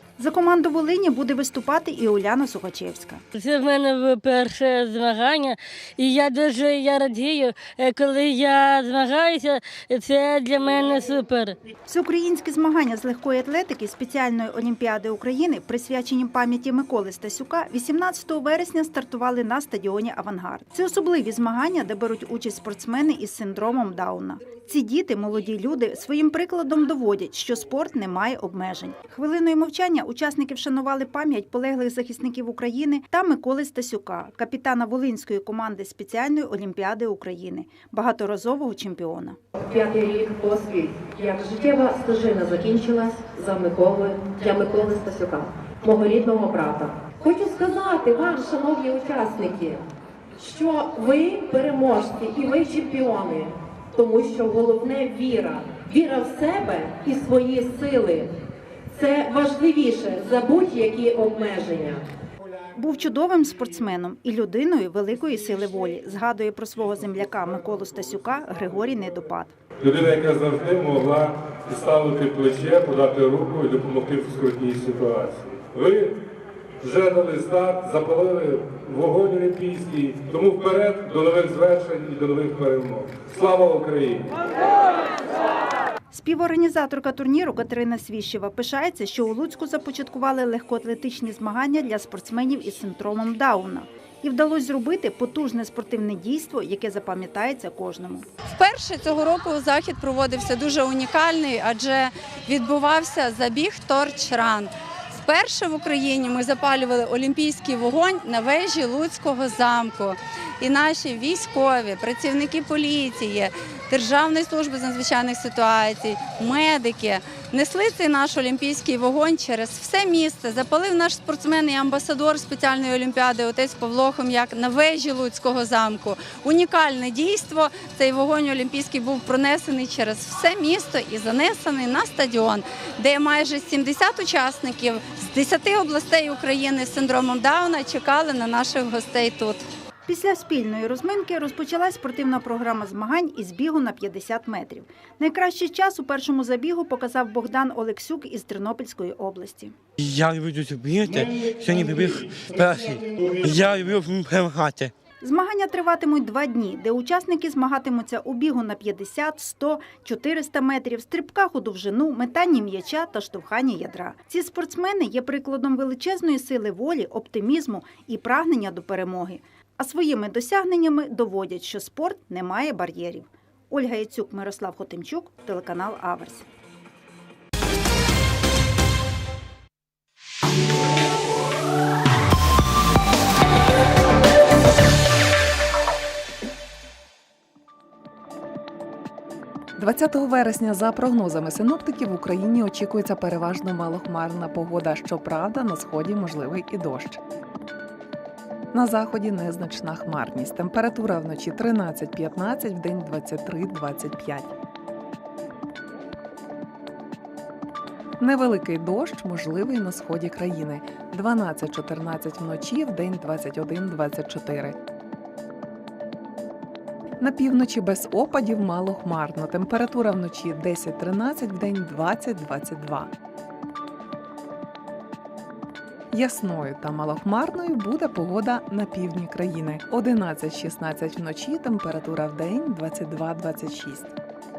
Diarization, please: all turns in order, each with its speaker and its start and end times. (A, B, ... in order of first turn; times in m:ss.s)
0:00.2-0:03.2 A
0:03.4-0:11.6 B
0:11.9-0:39.4 A
0:39.6-0:49.8 C
0:50.4-0:58.4 C
0:58.9-1:02.1 C
1:02.8-1:09.6 A
1:09.8-1:16.2 D
1:16.8-1:24.4 D
1:26.1-1:38.3 A
1:38.5-2:19.6 E
2:20.1-2:29.8 A
2:30.0-2:34.9 F
2:35.2-2:56.4 A
3:09.8-3:17.2 G
3:18.7-3:24.5 G
3:28.2-3:34.8 G
3:37.2-3:43.1 G
3:46.1-3:54.1 G